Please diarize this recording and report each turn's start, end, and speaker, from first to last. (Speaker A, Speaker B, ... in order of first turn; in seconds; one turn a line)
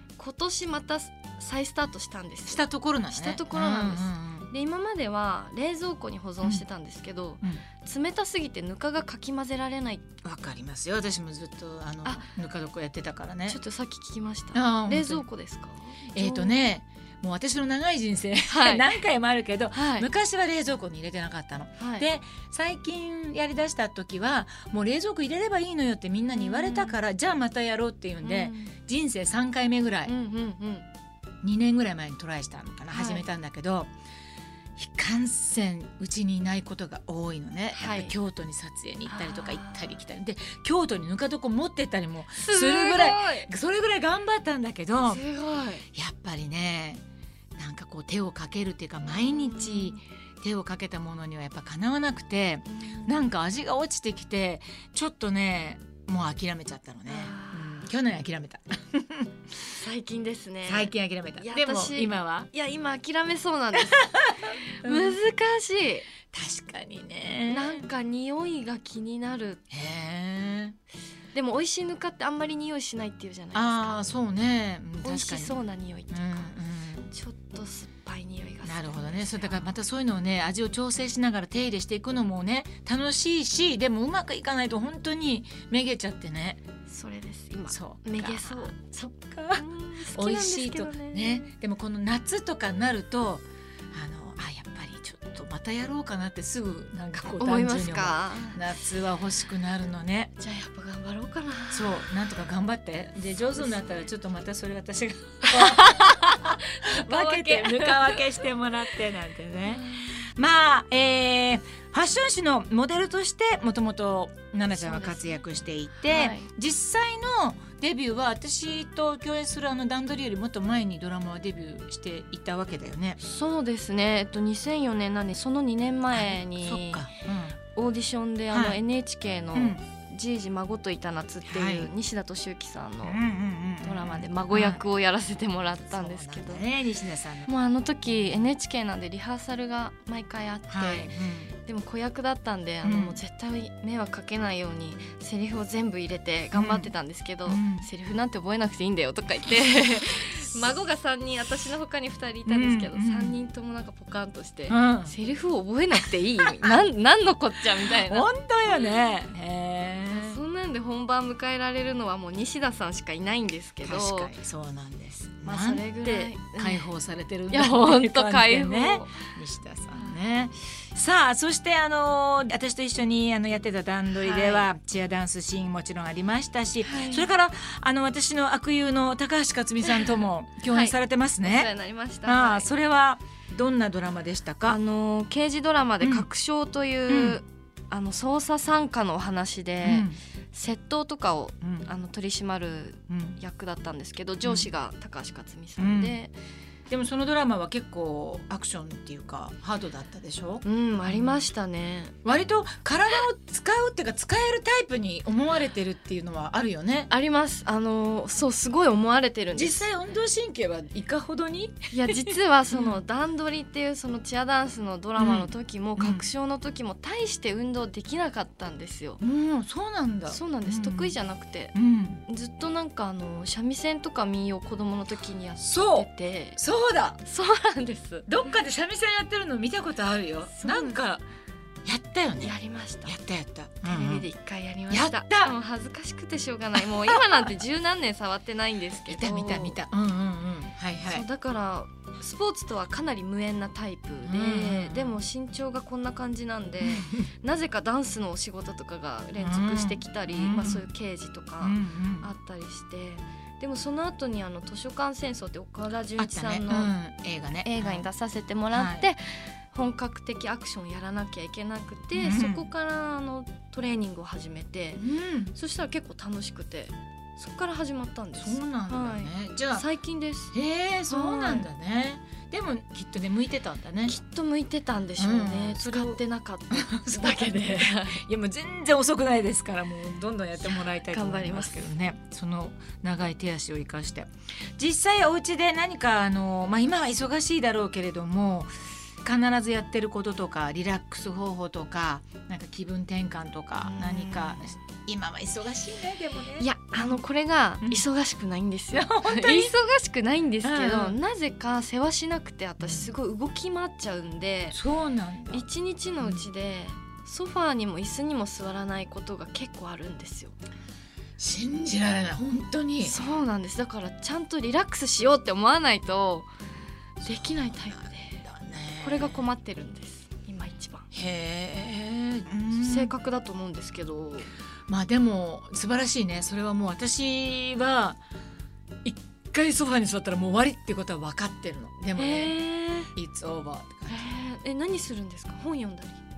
Speaker A: 0.2-10.0
Speaker B: 2.5-4.5
Speaker B: 10.2-13.6
Speaker A: 13.5-16.7
Speaker B: 14.5-15.2
Speaker B: 16.1-30.1
Speaker A: 18.5-19.0
Speaker A: 19.7-20.1
Speaker A: 21.8-22.1
Speaker A: 26.3-27.0
Speaker A: 28.2-28.7
Speaker A: 30.1-30.9
Speaker B: 31.4-33.9
Speaker A: 32.9-33.2
Speaker B: 34.8-45.2
Speaker A: 37.8-38.1
Speaker A: 39.1-40.0
Speaker A: 42.4-43.5
Speaker A: 45.1-45.9
Speaker B: 45.9-47.0
Speaker B: 47.6-59.4
Speaker A: 49.1-50.0
Speaker A: 52.7-53.2
Speaker A: 57.1-57.9
Speaker A: 59.7-66.1
Speaker B: 60.6-62.5
Speaker B: 63.8-65.2
Speaker B: 66.3-67.8
Speaker A: 67.5-69.6
Speaker B: 69.7-70.8
Speaker A: 71.3-74.0
Speaker B: 73.5-75.6
Speaker A: 75.0-76.5
Speaker B: 76.1-77.1
Speaker A: 77.1-79.7
Speaker B: 78.6-86.6
Speaker A: 86.9-88.7
Speaker B: 87.7-100.3
Speaker A: 89.5-91.5
Speaker A: 97.3-98.6
Speaker A: 100.4-102.2
Speaker B: 101.7-123.2
Speaker A: 103.5-104.0
Speaker A: 105.4-108.4
Speaker A: 109.6-110.2
Speaker A: 114.8-115.4
Speaker A: 116.0-116.5
Speaker A: 123.2-127.1
Speaker B: 126.1-127.6
Speaker A: 127.7-133.2
Speaker B: 128.5-128.8
Speaker B: 129.5-129.8
Speaker B: 131.4-131.9
Speaker B: 133.0-134.8
Speaker A: 133.8-136.7
Speaker B: 135.9-137.5
Speaker A: 137.4-159.0
Speaker B: 138.1-138.5
Speaker B: 140.7-141.5
Speaker B: 142.8-143.2
Speaker B: 146.5-146.9
Speaker B: 147.4-147.9
Speaker B: 152.4-153.4
Speaker B: 154.7-155.1
Speaker B: 157.8-160.4
Speaker A: 160.1-164.3
Speaker B: 163.8-181.7
Speaker A: 165.4-166.9
Speaker A: 167.5-169.3
Speaker A: 174.1-174.7
Speaker A: 176.8-177.3
Speaker A: 179.8-180.1
Speaker A: 180.7-182.7
Speaker B: 182.2-184.8
Speaker A: 184.7-196.3
Speaker B: 186.0-186.3
Speaker B: 187.1-187.4
Speaker B: 189.8-190.2
Speaker B: 191.6-191.9
Speaker B: 193.1-193.4
Speaker B: 194.4-194.7
Speaker B: 195.8-196.2
Speaker B: 196.9-201.4
Speaker A: 200.6-202.1
Speaker B: 202.2-207.1
Speaker A: 207.1-209.9
Speaker B: 209.5-213.0
Speaker A: 211.9-219.2
Speaker B: 215.2-216.3
Speaker B: 219.2-221.2
Speaker A: 220.3-221.7
Speaker B: 221.7-222.2
Speaker A: 222.2-226.6
Speaker B: 225.6-227.2
Speaker A: 227.2-228.5
Speaker B: 228.3-231.2
Speaker A: 230.5-231.0
Speaker B: 231.8-234.3
Speaker A: 232.4-233.1
Speaker A: 233.8-239.8
Speaker B: 234.9-235.5
Speaker B: 236.8-237.5
Speaker B: 239.0-241.2
Speaker A: 241.0-256.9
Speaker B: 244.2-245.2
Speaker B: 246.8-247.3
Speaker B: 249.4-250.9
Speaker B: 251.6-252.3
Speaker B: 256.2-258.1
Speaker A: 257.6-270.5
Speaker B: 258.7-259.1
Speaker B: 262.1-262.7
Speaker B: 264.9-265.5
Speaker B: 268.3-269.8
Speaker B: 270.5-274.1
Speaker A: 271.1-271.7
Speaker A: 274.1-278.2
Speaker B: 275.2-288.7
Speaker A: 280.6-281.8
Speaker B: 289.2-297.1
Speaker A: 293.8-294.7
Speaker A: 296.6-304.8
Speaker B: 298.9-299.7
Speaker B: 300.6-301.2
Speaker B: 302.8-303.1
Speaker B: 304.7-305.6
Speaker A: 305.5-310.5
Speaker B: 311.4-313.2
Speaker A: 313.0-316.5
Speaker B: 317.2-319.4
Speaker A: 317.2-318.4
Speaker A: 319.0-321.1
Speaker B: 321.1-323.1
Speaker A: 322.7-324.5
Speaker B: 324.9-328.2
Speaker B: 329.0-332.5
Speaker A: 332.2-333.1
Speaker B: 333.1-334.3
Speaker A: 334.1-336.2